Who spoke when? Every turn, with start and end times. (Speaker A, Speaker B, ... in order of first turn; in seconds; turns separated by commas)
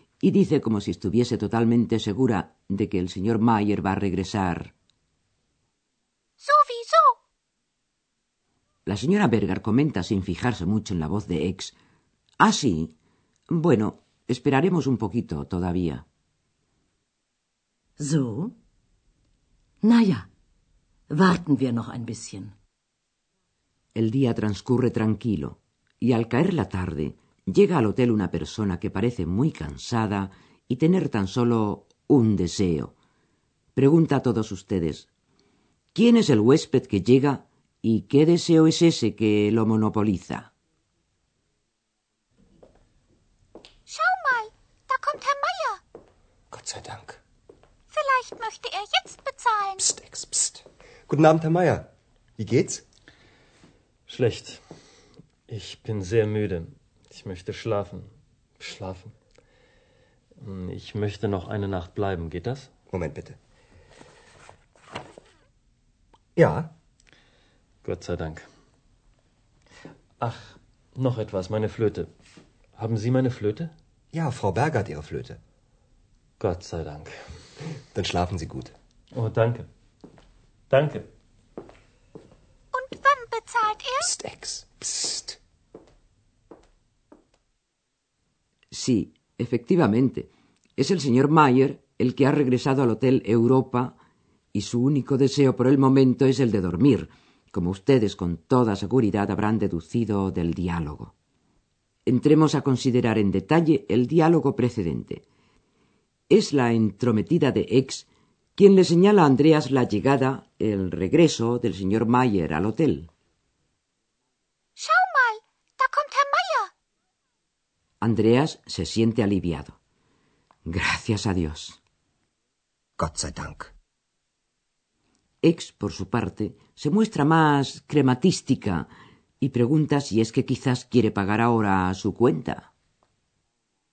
Speaker A: 0.2-4.7, Speaker B: 6.4-7.1, Speaker A: 8.8-11.8, Speaker A: 12.4-12.9, Speaker A: 13.5-16.0, Speaker C: 18.0-18.5, Speaker C: 19.8-20.3, Speaker C: 21.1-22.5, Speaker A: 23.9-32.9, Speaker A: 33.8-35.1, Speaker A: 35.9-40.5, Speaker B: 43.9-45.8, Speaker D: 46.5-47.2, Speaker B: 47.9-49.8, Speaker D: 49.8-51.9, Speaker D: 52.4-52.8, Speaker E: 54.1-54.6, Speaker E: 55.5-58.1, Speaker E: 58.6-59.1, Speaker E: 60.4-62.7, Speaker D: 62.9-63.4, Speaker D: 66.3-66.7, Speaker E: 67.8-68.5, Speaker E: 70.2-72.1, Speaker E: 72.8-73.7, Speaker D: 74.1-75.4, Speaker E: 76.4-77.2, Speaker D: 77.9-78.7, Speaker E: 79.1-79.7, Speaker E: 80.7-81.1, Speaker B: 82.7-84.1, Speaker D: 84.0-85.4, Speaker A: 88.7-94.0, Speaker A: 94.5-101.1, Speaker A: 102.0-105.2, Speaker A: 106.3-113.1, Speaker B: 114.8-116.7, Speaker A: 118.0-119.8, Speaker A: 120.7-121.8, Speaker D: 123.0-123.7, Speaker A: 125.4-128.9, Speaker A: 129.4-132.7